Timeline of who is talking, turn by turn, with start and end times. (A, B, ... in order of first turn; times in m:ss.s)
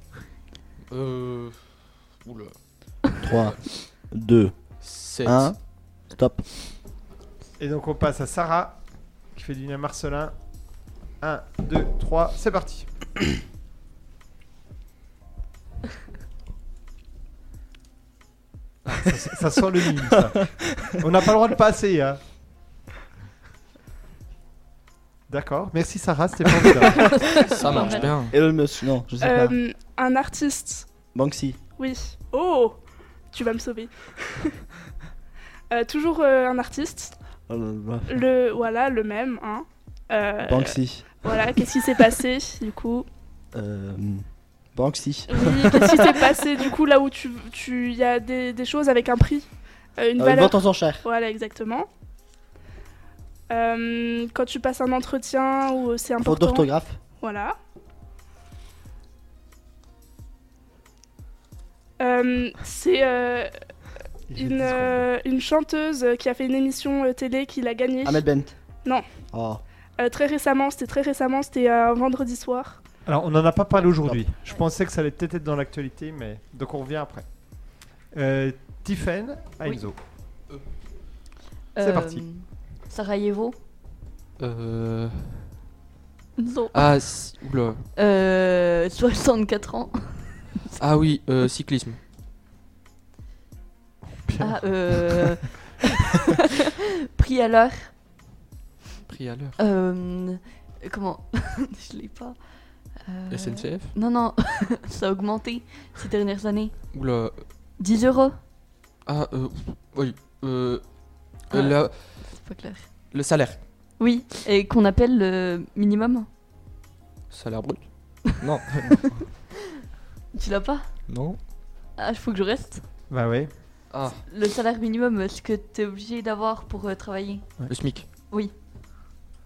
0:00.9-0:03.6 A
0:03.2-0:04.7 B
0:04.8-0:05.5 A
0:05.2-0:06.4 B
0:07.6-0:10.3 C
0:11.2-0:12.9 C
0:18.8-0:22.2 C
0:25.3-0:27.5 C
0:27.1-0:28.1 D
0:27.3-0:28.4 A
0:27.6-0:29.6 B
0:29.2-0:30.9 E
0:31.1-0:31.6 B
0:31.8-0:32.8 E
0:33.3-0:34.6 E
0:35.7-0:37.1 E
0:37.5-0:38.2 B
0:38.1-0:43.0 E
0:40.4-0:41.4 B
0:43.5-0:46.3 B
0:45.3-0:51.9 E
0:50.2-0:51.0 B
0:53.5-0:56.7 E
0:56.2-0:57.0 B
0:57.2-0:57.6 E
1:02.0-1:03.5 E
1:04.3-1:05.0 C
1:04.3-1:08.2 E
1:08.0-1:08.5 B
1:09.3-1:09.6 B
1:10.0-1:12.8 E
1:13.0-1:17.3 C
1:18.1-1:20.0 C
1:21.7-1:23.6 D
1:21.8-1:22.2 C
1:24.4-1:25.5 A
1:26.4-1:27.2 D
1:26.7-1:27.8 A
1:28.0-1:30.6 D
1:30.8-1:32.0 A
1:34.2-1:35.2 C
1:34.4-1:36.3 D
1:37.1-1:38.0 D
1:39.1-1:39.6 A
1:39.6-1:47.0 D
1:43.3-1:43.9 A
1:46.9-1:47.5 A
1:47.8-1:48.4 D
1:49.0-1:52.5 A
1:51.5-1:53.1 D
1:53.1-1:53.6 A
1:54.0-1:56.3 D
1:57.3-1:59.1 A
2:00.3-2:01.1 D
2:01.1-2:01.4 A
2:02.0-2:02.8 D
2:03.1-2:03.5 C
2:03.9-2:04.2 A
2:04.2-2:08.5 D
2:07.7-2:08.1 A